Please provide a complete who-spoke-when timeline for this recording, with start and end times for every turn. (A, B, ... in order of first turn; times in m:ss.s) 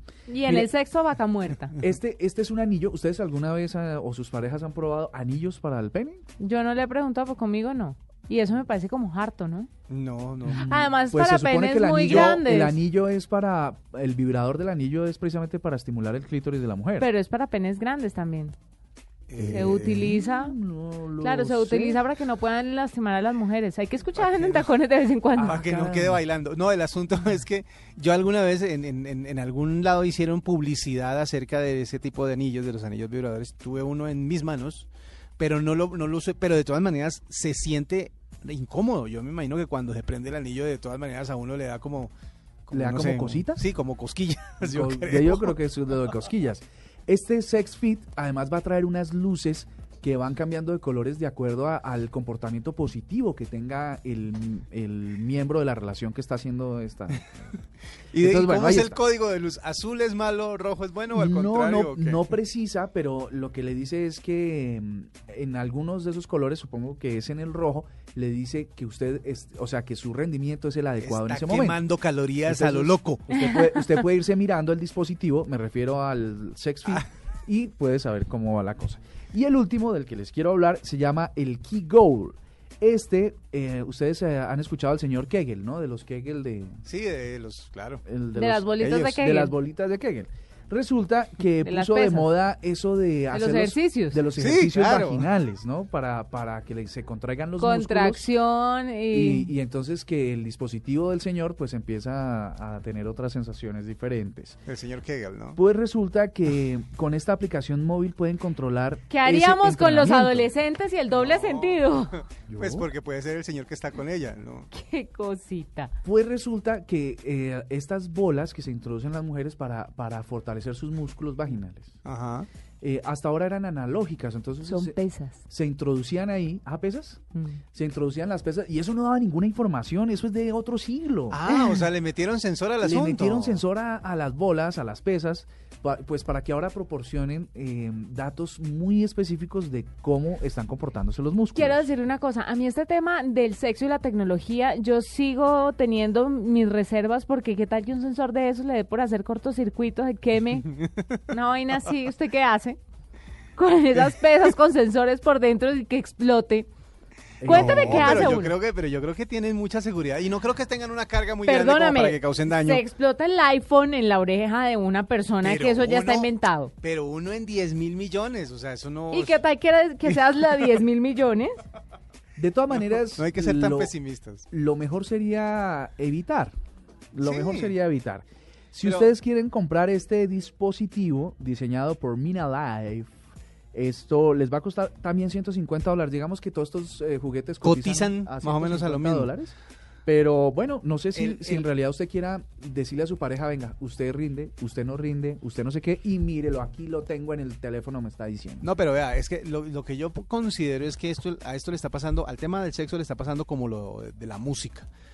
0:00.3-0:01.8 A
0:01.8-0:06.2 B
0:06.4-0:09.7 A
0:09.9-0:10.7 C
0:10.5-0:17.1 B
0:10.6-0:12.8 A
0:12.0-0:12.4 C
0:17.0-0:18.6 A
0:19.3-0:20.0 C
0:19.4-0:20.6 A
0:19.8-0:22.0 B
0:21.2-0:25.7 A
0:24.2-0:24.7 C
0:25.4-0:26.2 B
0:25.4-0:42.1 C
0:42.7-0:45.6 C
0:42.7-0:43.6 B
0:44.6-0:57.6 B
0:58.1-1:02.3 C
0:58.2-0:59.0 B
1:01.1-1:11.8 B
1:11.0-1:13.4 C
1:12.4-1:26.8 B
1:26.9-1:28.0 C
1:28.0-1:38.3 B
1:28.3-1:29.5 A
1:31.6-1:32.3 A
1:33.3-1:34.2 A
1:34.4-1:35.3 C
1:37.6-1:39.5 A
1:39.1-1:44.6 B
1:44.7-1:45.6 C
1:45.6-1:50.5 B
1:49.1-1:52.2 A
1:51.2-1:51.8 C
1:52.5-1:52.9 B
1:52.6-1:54.7 C
1:54.7-1:55.9 A
1:56.0-2:02.0 B
2:02.0-2:02.5 C
2:02.8-2:07.2 B
2:04.7-2:05.4 A
2:07.7-2:11.4 B
2:11.3-2:13.6 C
2:11.5-2:11.9 A
2:12.8-2:21.8 B
2:21.6-2:32.8 A
2:33.6-2:36.7 A
2:37.4-2:38.4 B
2:37.4-2:38.6 A
2:37.5-2:42.8 C
2:41.4-2:46.7 A
2:45.4-2:49.4 C
2:49.1-2:51.6 A
2:52.4-2:53.9 B
2:52.7-2:54.5 C
2:54.5-2:56.5 B
2:57.1-3:03.1 B
2:57.2-2:57.7 C
3:03.7-3:09.6 B
3:07.6-3:09.3 C
3:10.1-3:18.6 B
3:11.1-3:11.7 C
3:18.6-3:24.9 C